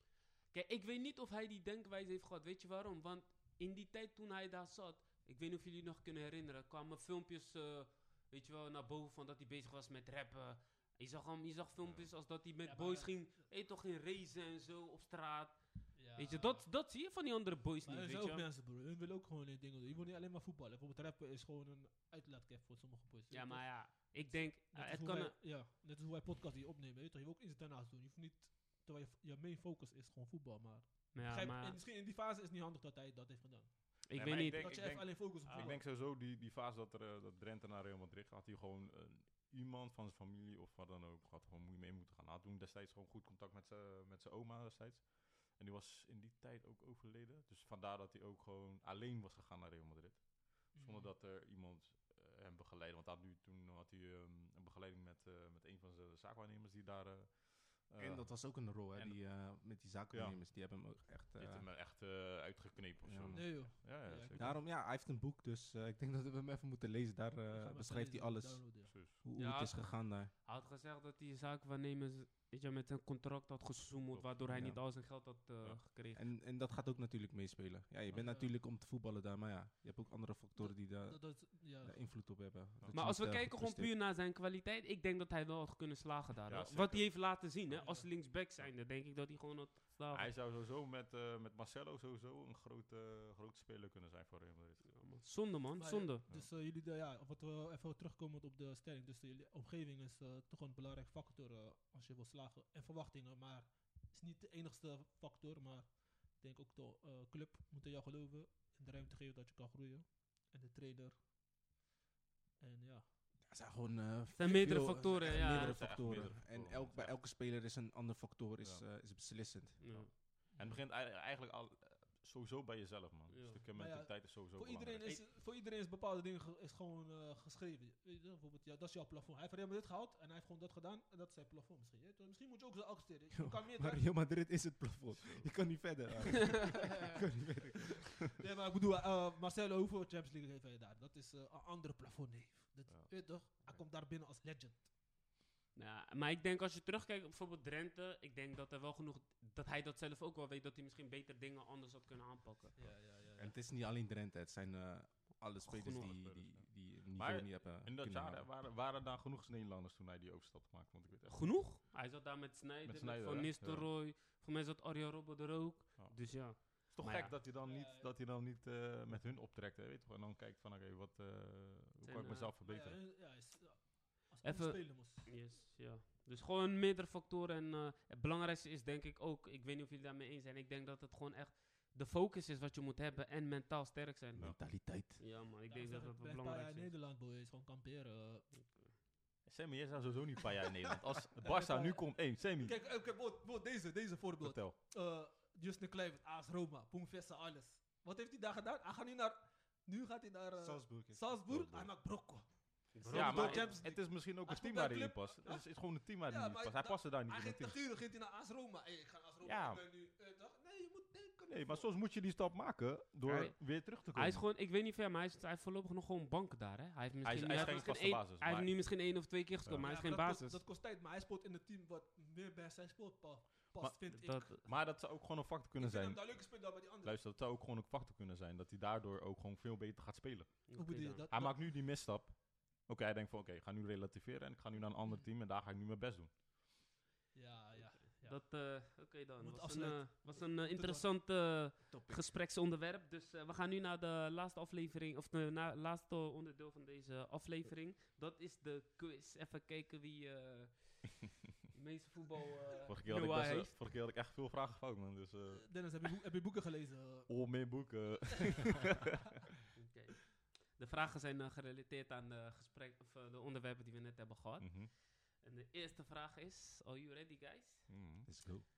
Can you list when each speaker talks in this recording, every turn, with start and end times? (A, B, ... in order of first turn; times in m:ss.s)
0:00.5-0:18.5 A
0:11.8-0:12.1 B
0:12.6-0:13.4 C
0:15.9-0:16.7 C
0:17.8-0:35.8 C
0:23.3-0:25.4 A
0:31.1-0:31.8 A
0:34.0-0:35.8 A
0:34.1-0:59.5 B
0:50.7-0:51.1 C
0:58.0-1:01.7 D
1:00.1-1:00.4 B
1:01.4-1:04.5 B
1:03.0-1:10.3 D
1:03.3-1:04.6 C
1:07.5-1:09.0 C
1:08.8-1:09.2 B
1:09.4-1:16.2 A
1:14.5-1:14.8 D
1:16.1-1:23.9 D
1:18.2-1:18.5 C
1:20.6-1:22.0 C
1:22.9-1:30.3 A
1:26.5-1:27.8 B
1:27.8-1:28.1 C
1:30.1-1:35.0 B
1:34.8-1:36.2 A
1:35.8-1:51.2 C
1:52.6-1:53.0 C
1:53.4-1:59.9 D
1:54.3-1:56.0 A
1:54.6-1:55.5 C
1:55.3-1:57.2 B
1:58.6-1:58.9 B
1:59.8-2:00.1 A
1:59.9-2:05.3 B
2:00.5-2:00.8 C
2:03.3-2:03.6 A
2:03.7-2:14.2 C
2:13.4-2:18.1 D
2:15.1-2:15.9 B
2:18.3-2:24.9 C
2:22.9-2:23.3 B
2:25.7-2:32.8 A
2:32.7-2:33.5 C
2:33.4-2:38.5 D
2:35.6-2:36.1 A
2:35.8-2:41.7 B
2:41.3-2:47.4 A
2:42.8-2:43.9 B
2:46.0-2:53.1 B
2:47.6-2:48.1 C
2:52.0-2:52.5 A
2:52.6-2:55.3 C
2:54.4-3:06.9 A
3:04.4-3:05.2 D
3:05.7-3:08.7 C
3:09.4-3:12.8 B
3:11.4-3:31.9 C
3:14.4-3:14.8 B
3:20.6-3:21.9 D
3:22.9-3:23.8 A
3:23.1-3:27.8 B
3:29.4-3:29.8 B
3:31.5-3:34.4 B
3:33.2-3:40.6 A
3:37.2-3:39.1 B
3:37.4-3:38.0 C
3:39.6-3:39.9 B
3:39.8-3:44.6 C
3:43.8-3:56.4 B
3:44.1-3:44.5 A
3:45.8-3:47.1 C
3:50.7-3:51.3 A
3:50.7-3:51.6 C
3:57.3-3:58.9 C
3:58.2-4:13.8 A
3:59.4-4:01.1 C
4:01.9-4:02.4 D
4:12.9-4:15.9 B
4:15.6-4:18.0 C
4:17.3-4:19.0 B
4:19.7-4:27.9 A
4:24.6-4:24.9 B
4:27.9-4:28.3 B
4:28.2-4:28.6 D